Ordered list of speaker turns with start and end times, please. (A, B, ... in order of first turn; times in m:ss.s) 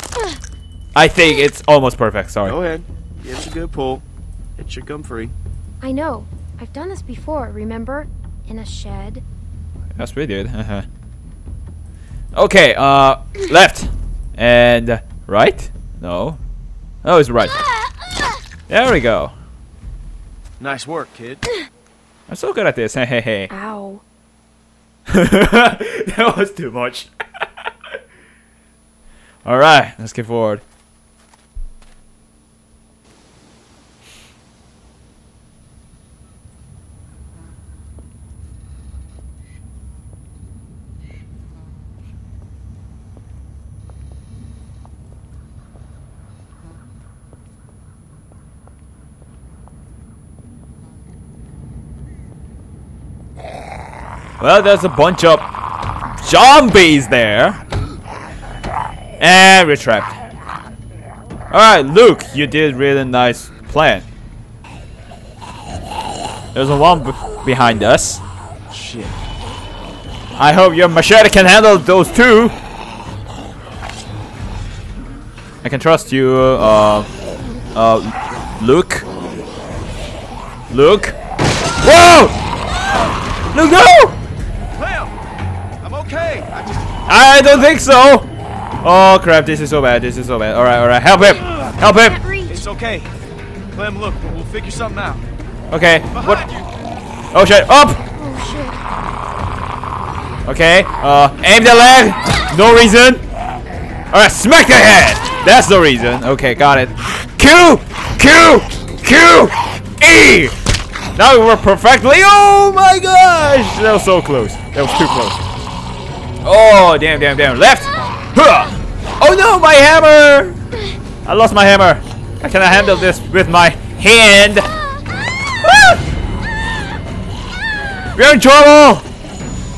0:01.0-0:02.6 A
0:02.4-0:04.0 B
0:04.6-0:05.3 B
0:05.8-0:09.2 C
0:10.0-0:10.9 A
0:12.3-0:16.4 A
0:17.0-0:17.6 A
0:18.7-0:19.3 A
0:20.6-0:21.4 B
0:22.3-0:23.5 A
0:23.5-0:24.0 C
0:25.1-0:27.1 A
0:29.4-0:30.6 A
0:54.4-0:55.6 A
0:56.2-0:57.6 A
0:59.2-1:00.2 A
1:01.5-1:04.0 A
1:06.5-1:08.2 A
1:08.7-1:09.2 B
1:10.4-1:12.6 A
1:15.6-1:17.1 A
1:17.7-1:19.1 A
1:20.7-1:21.2 A
1:21.8-1:22.4 A
1:23.5-1:24.2 A
1:24.7-1:25.2 B
1:25.8-1:26.9 B
1:27.1-1:28.3 A
1:28.8-1:32.2 A
1:31.8-1:32.6 C
1:32.5-1:33.1 B
1:33.7-1:35.2 B
1:35.7-1:36.5 A
1:36.1-1:36.7 B
1:37.3-1:38.0 A
1:38.2-1:38.8 C
1:40.4-1:43.2 A
1:44.1-1:50.6 A
1:51.2-1:55.4 A
1:56.4-2:00.6 A
2:01.2-2:04.7 A
2:05.6-2:06.0 A
2:08.2-2:09.1 A